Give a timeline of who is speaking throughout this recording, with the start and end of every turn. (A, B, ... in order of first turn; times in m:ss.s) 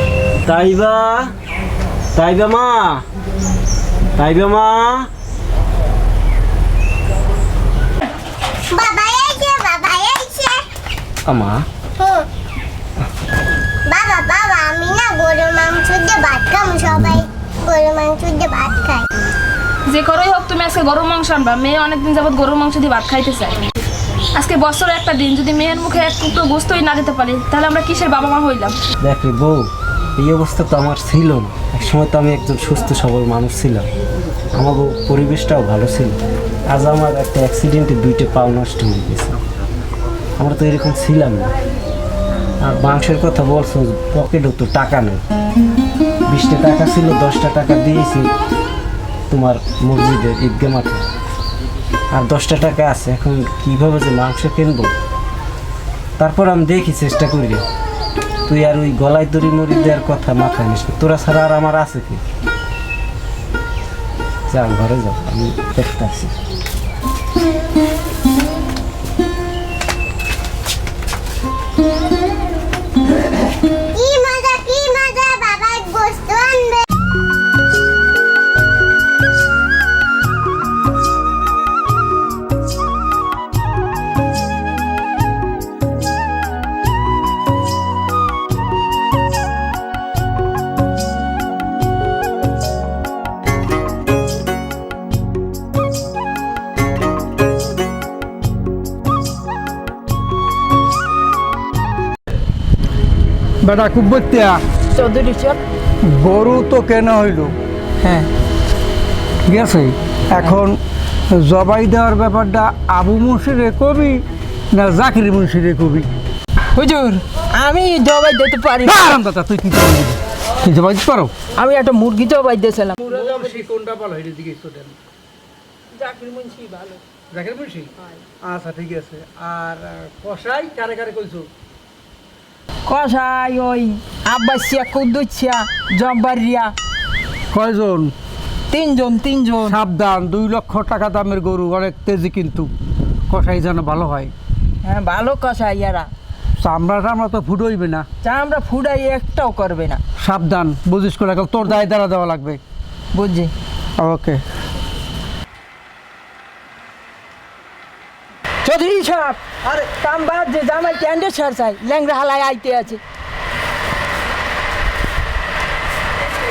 0:00.4-0:01.3 A
0:02.1-0:03.0 A
0:04.2-0:05.1 A
0:08.6-0:10.6 B
0:11.2-0:11.6 A
0:12.0-0:12.3 B
0:13.8-0:19.1 B
0:19.9-0:23.6 C
0:24.4-0:28.8 C
0:29.0-0:33.8 A
0:34.5-0:36.2 A
0:36.7-0:39.4 A
0:40.4-0:41.5 A
0:42.6-0:45.2 A
0:46.3-0:48.3 A
0:49.3-0:51.0 A
0:52.1-0:54.9 A
0:56.2-0:57.6 A
0:58.4-1:02.2 A
1:04.5-1:06.4 A
1:13.9-1:16.8 B
1:43.6-1:44.6 D
1:44.9-1:45.6 E
1:46.0-1:47.6 D
1:48.0-1:48.3 E
1:49.5-1:50.8 D
1:51.3-1:56.1 D
1:56.7-1:59.1 E
1:58.8-2:01.4 D
2:01.5-2:03.7 E
2:03.0-2:04.9 D
2:05.9-2:07.0 E
2:07.3-2:11.5 D
2:12.9-2:16.7 E
2:17.5-2:18.1 D
2:18.7-2:19.8 E
2:19.6-2:22.7 D
2:23.3-2:24.3 D
2:24.8-2:26.1 E
2:26.6-2:28.1 D
2:28.2-2:30.0 E
2:30.2-2:32.6 D
2:33.1-2:33.5 E
2:34.0-2:34.4 D
2:38.6-2:43.0 E